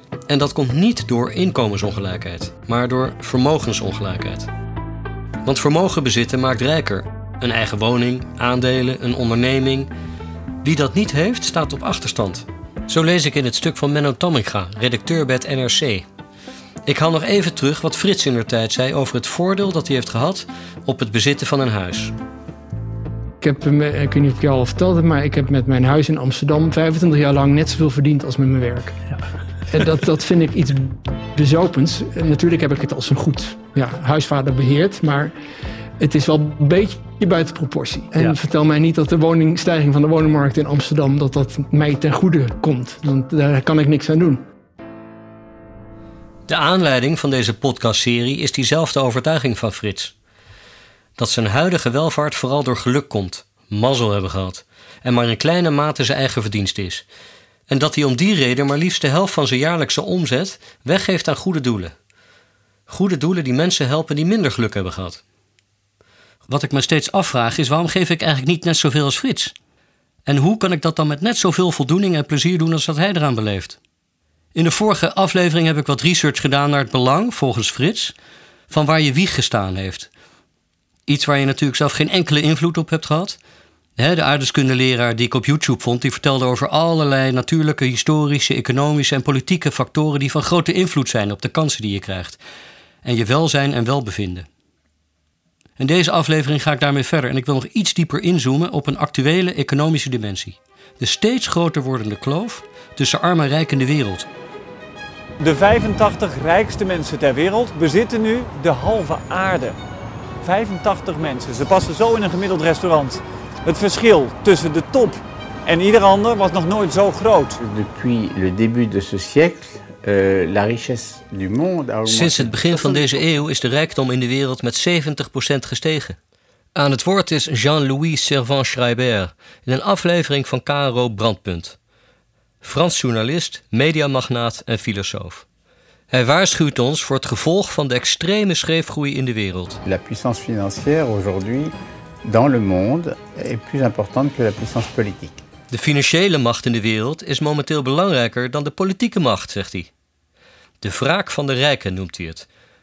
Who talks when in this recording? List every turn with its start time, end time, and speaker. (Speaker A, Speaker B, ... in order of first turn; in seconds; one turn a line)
Speaker A: 0.3-4.5
Speaker A: 5.5-9.9
Speaker A: 10.6-16.1
Speaker A: 16.9-22.1
Speaker B: 23.4-28.9
Speaker B: 29.7-35.3
Speaker B: 36.0-44.4
Speaker A: 46.5-50.1
Speaker A: 51.2-57.1
Speaker A: 57.7-61.9
Speaker A: 62.9-65.2
Speaker A: 66.5-69.5
Speaker A: 70.3-73.8
Speaker A: 74.5-78.2
Speaker A: 78.7-80.1
Speaker A: 81.1-83.4
Speaker A: 84.0-92.4
Speaker A: 93.0-94.5
Speaker A: 95.8-104.3
Speaker C: 105.4-109.8
Speaker C: 110.4-117.6
Speaker D: 117.6-123.2
Speaker A: 122.1-126.2
Speaker A: 126.8-131.8
Speaker A: 132.6-135.5
Speaker A: 136.1-139.8
Speaker D: 139.9-145.4
Speaker A: 145.7-149.9
Speaker A: 150.8-152.5